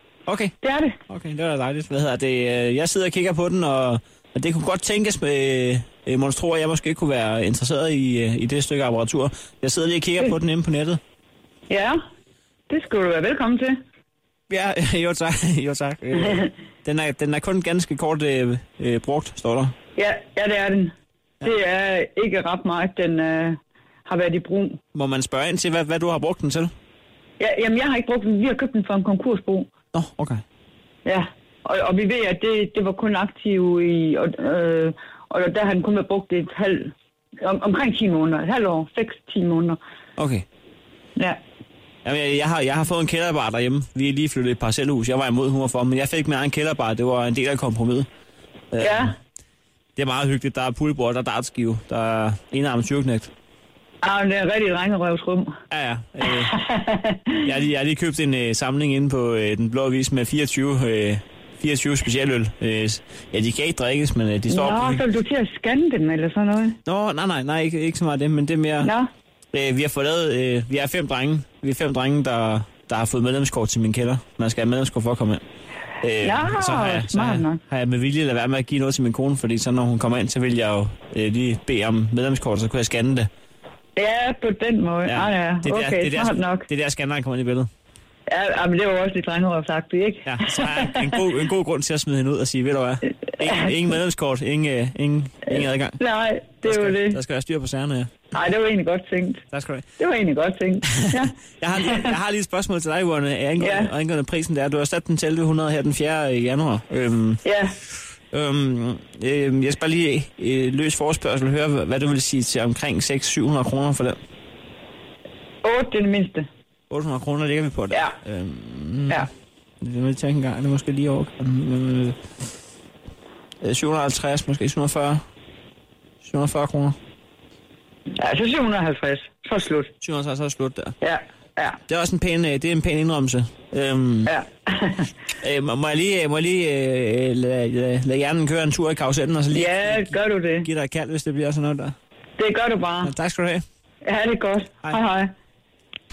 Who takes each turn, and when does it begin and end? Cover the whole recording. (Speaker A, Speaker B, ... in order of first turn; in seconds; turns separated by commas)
Speaker A: 0.3-0.6, Speaker B: 0.6-1.0, Speaker A: 1.1-11.0, Speaker B: 11.7-12.0, Speaker B: 12.7-13.8, Speaker A: 14.5-19.7, Speaker B: 20.0-24.8, Speaker A: 24.9-26.7, Speaker B: 27.4-29.7, Speaker A: 29.9-30.4, Speaker B: 31.1-39.8, Speaker A: 40.2-40.5, Speaker A: 42.0-48.1, Speaker A: 48.7-49.1, Speaker B: 48.8-49.1, Speaker A: 50.0-53.3, Speaker B: 54.0-55.5, Speaker A: 55.7-56.5, Speaker B: 56.4-57.4, Speaker A: 57.4-65.0, Speaker B: 64.5-66.8, Speaker A: 66.8-68.9, Speaker B: 68.8-69.1, Speaker A: 69.5-75.4, Speaker A: 76.0-83.3, Speaker B: 76.2-77.6, Speaker B: 84.0-86.7, Speaker A: 85.1-87.7, Speaker B: 88.3-91.1, Speaker A: 90.2-96.0, Speaker B: 96.0-97.2, Speaker A: 96.6-98.1, Speaker B: 98.3-99.4, Speaker A: 99.5-99.8, Speaker B: 100.0-102.1, Speaker A: 101.0-107.4, Speaker B: 103.6-103.9, Speaker B: 107.4-107.7, Speaker A: 108.3-114.2, Speaker B: 115.6-116.5, Speaker A: 116.9-119.3, Speaker A: 119.8-122.2, Speaker A: 123.6-125.2, Speaker A: 126.2-127.0, Speaker B: 128.2-129.9, Speaker A: 130.0-131.0, Speaker B: 131.0-131.8, Speaker A: 131.9-134.3, Speaker B: 134.3-135.1, Speaker A: 135.4-142.0, Speaker B: 139.5-140.7, Speaker B: 142.4-143.1, Speaker A: 143.0-143.6, Speaker B: 144.1-145.3